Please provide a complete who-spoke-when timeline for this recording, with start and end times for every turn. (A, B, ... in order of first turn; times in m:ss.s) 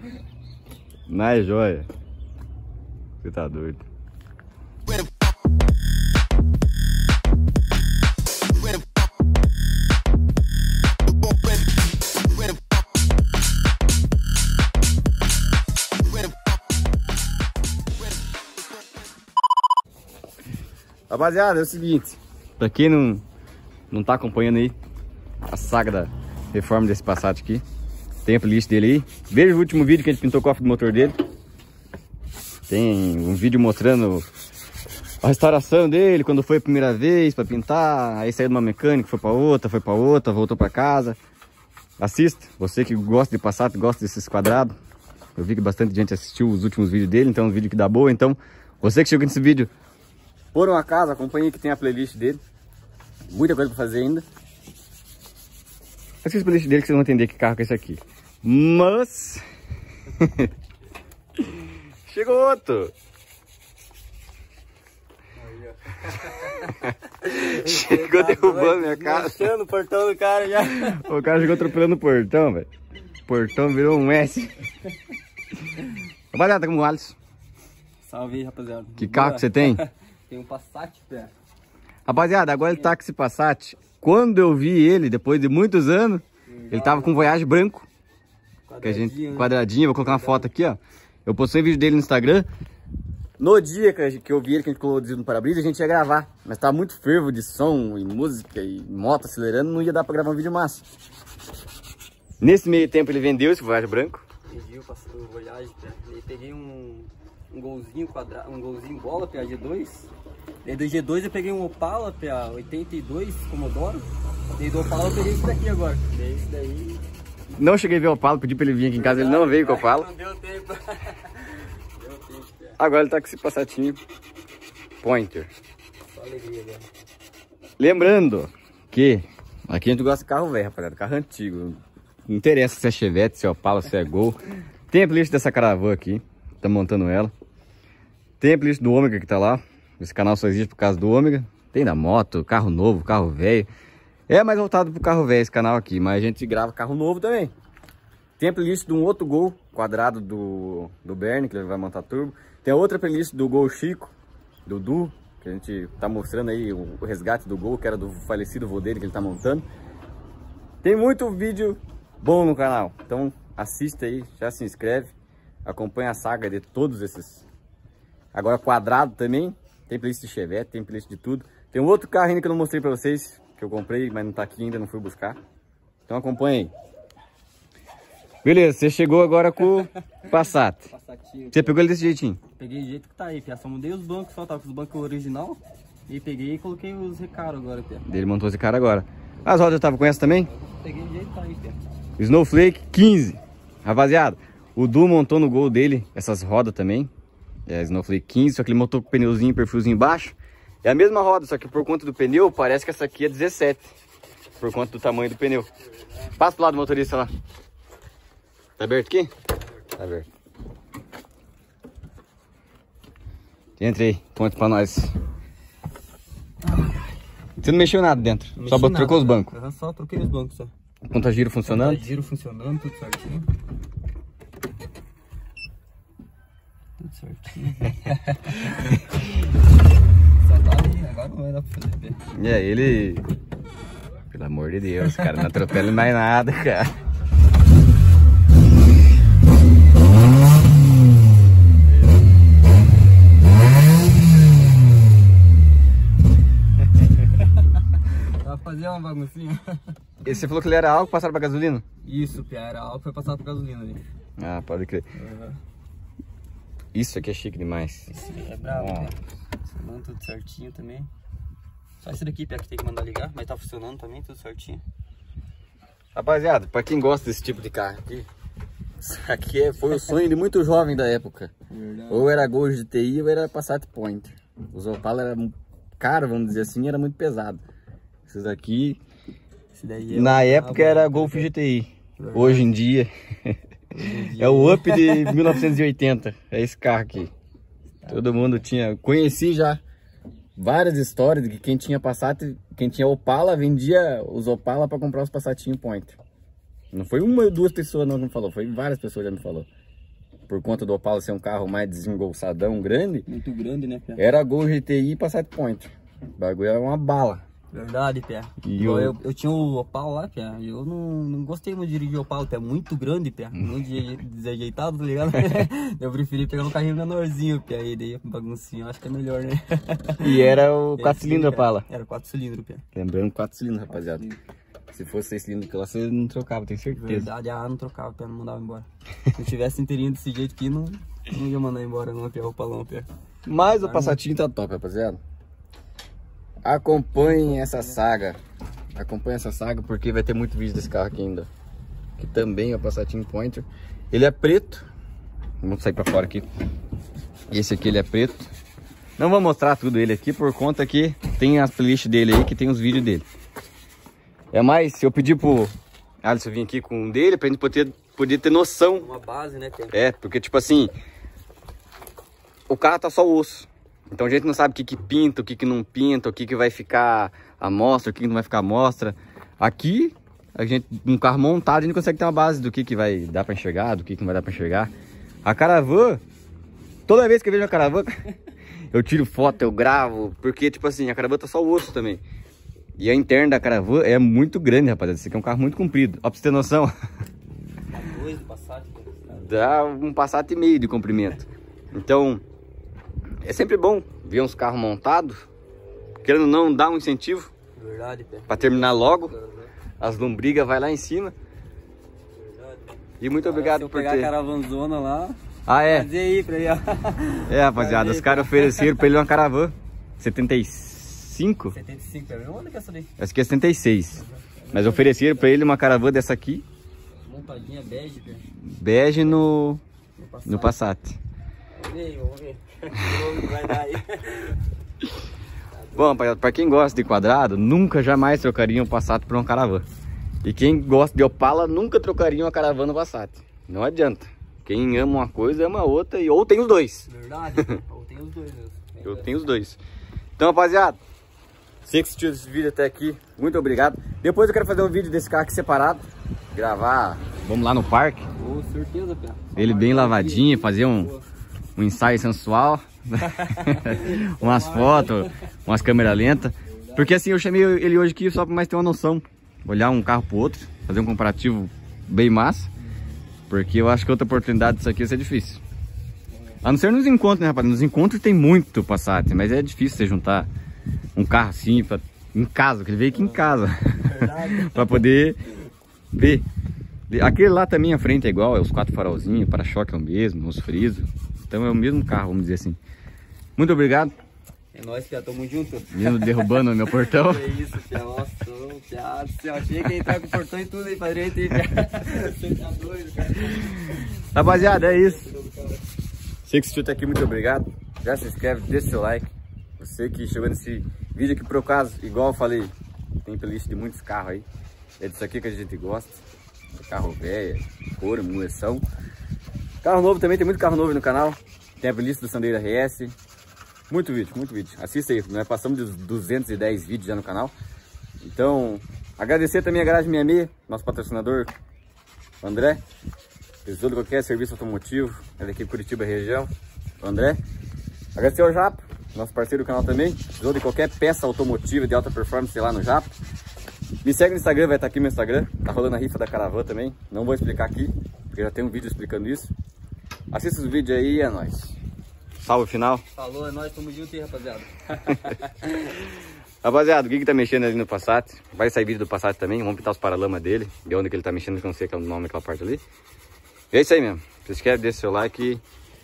0:01.1-0:01.8 A
0:03.2-0:03.8 A
0:21.1-0:23.2 A
0:23.9-0:24.7 A
0:25.5-0:27.6 A
0:28.2-0:31.2 A
0:32.7-0:34.3 A
0:35.2-0:41.2 A
0:42.0-0:44.7 A
0:45.4-0:49.7 A
0:50.5-0:52.4 A
0:53.3-0:54.2 A
0:56.2-0:59.4 A
1:00.1-1:00.5 A
1:02.1-1:02.9 A
1:05.6-1:06.6 B
1:06.5-1:09.5 A
1:07.4-1:11.7 B
1:10.8-1:12.7 A
1:13.3-1:14.5 A
1:16.3-1:17.1 A
1:18.0-1:21.3 B
1:19.0-1:19.8 A
1:22.0-1:27.9 A
1:22.5-1:22.9 B
1:26.5-1:27.3 B
1:28.7-1:30.5 B
1:28.8-1:32.5 A
1:33.4-1:40.8 A
1:42.4-1:44.2 A
1:44.4-1:50.1 B
1:50.6-1:57.0 B
1:57.5-2:00.1 A
1:58.9-2:02.8 B
2:02.8-2:04.0 A
2:05.0-2:05.5 A
2:06.1-2:06.8 B
2:07.8-2:14.4 A
2:14.9-2:17.3 A
2:18.4-2:23.7 A
2:24.3-2:27.5 A
2:28.4-2:34.1 A
2:34.6-2:39.6 A
2:40.8-2:45.1 A
2:45.6-2:47.4 A
2:48.3-2:55.4 A
2:56.1-2:56.7 A
2:58.4-3:00.9 A
2:59.7-3:01.8 B
3:01.5-3:02.4 A
3:02.6-3:08.0 B
3:08.0-3:10.5 A
3:10.4-3:11.8 B
3:12.2-3:17.1 A
3:17.7-3:23.9 A
3:24.6-3:25.7 A
3:26.3-3:27.3 A
3:28.8-3:29.3 A
3:30.0-3:30.2 A
3:33.8-3:35.1 A
3:36.6-3:37.1 B
3:37.6-3:39.5 A
3:38.6-3:40.7 B
3:41.1-3:42.0 A
3:41.6-3:43.5 B
3:47.0-3:49.0 B
3:50.4-3:52.2 B
3:52.3-3:53.2 A
3:54.3-3:56.9 A
4:08.0-4:09.9 B
4:10.2-4:11.8 A
4:12.0-4:14.0 B
4:14.4-4:15.0 A
4:15.2-4:15.6 B
4:16.9-4:18.1 A
4:18.1-4:21.1 B
4:18.7-4:19.1 A
4:22.0-4:24.8 B
4:26.1-4:28.3 A
4:29.0-4:31.5 A
4:31.7-4:32.4 B
4:32.1-4:37.6 A
4:38.3-4:39.0 A
4:39.7-4:41.5 B
4:40.1-4:43.6 A
4:42.2-4:42.7 B
4:43.9-4:45.6 B
4:44.2-4:47.3 A
4:48.1-4:49.8 A
4:50.6-4:56.2 A
4:56.9-4:59.7 A
5:00.5-5:03.3 A
5:03.3-5:04.2 B
5:04.2-5:07.4 A
5:07.7-5:22.8 B
5:08.6-5:09.1 A
5:20.2-5:21.8 A
5:22.9-5:24.3 A
5:24.1-5:24.4 B
5:24.9-5:27.3 A
5:26.9-5:33.1 B
5:33.4-5:35.2 A
5:33.8-5:34.2 B
5:36.6-5:38.4 A
5:37.2-5:38.0 B
5:38.9-5:41.5 A
5:42.2-5:44.9 A
5:45.6-5:46.5 A
5:47.5-5:48.5 A
5:49.2-5:53.2 A
5:54.5-5:55.7 A
5:56.2-5:59.1 A
5:58.9-6:00.0 B
5:59.9-6:00.9 A
6:02.7-6:14.9 A
6:15.4-6:16.2 A
6:17.1-6:18.1 A
6:18.9-6:22.2 A
6:23.0-6:26.9 A
6:27.9-6:29.6 B
6:29.3-6:32.4 A
6:33.4-6:35.4 A
6:36.2-6:37.5 A
6:37.7-6:39.7 B
6:38.5-6:39.3 A
6:40.0-6:41.3 A
6:42.3-6:49.1 B
6:43.2-6:44.3 A
6:45.7-6:46.1 A
6:47.5-6:51.8 A
6:51.7-6:53.1 B
6:53.2-6:54.2 A
6:54.1-6:55.5 B
6:54.7-6:56.6 A
6:57.2-6:58.4 B
6:58.6-6:59.8 A
7:00.2-7:00.8 B
7:00.4-7:01.2 A
7:01.7-7:04.6 B
7:05.7-7:06.3 B
7:06.0-7:09.8 A
7:10.4-7:17.1 A
7:17.1-7:19.5 B
7:19.0-7:19.8 A
7:20.4-7:21.0 A
7:21.8-7:28.3 A
7:28.4-7:31.2 B
7:29.6-7:31.1 A
7:31.8-7:42.7 A
7:33.2-7:35.3 B
7:36.7-7:37.1 B
7:43.5-7:45.6 A
7:46.3-7:46.6 B
7:46.6-7:50.5 A
7:51.2-7:55.4 A
7:53.1-7:54.9 B
7:56.1-7:56.4 A
7:57.1-8:02.8 A
8:03.6-8:04.1 A
8:04.7-8:15.8 B
8:05.9-8:07.5 A
8:13.9-8:15.2 A
8:16.5-8:22.7 A
8:23.2-8:24.4 A
8:25.0-8:26.2 A
8:26.7-8:28.8 A
8:29.8-8:33.1 A
8:33.9-8:37.5 A
8:38.2-8:41.5 A
8:42.4-8:42.8 A
8:43.6-8:47.4 A
8:48.1-8:53.1 A
8:54.0-8:59.5 A
9:00.3-9:01.8 A
9:02.4-9:03.0 A
9:03.1-9:05.5 B
9:05.7-9:06.0 A
9:06.6-9:12.8 A
9:13.7-9:15.6 A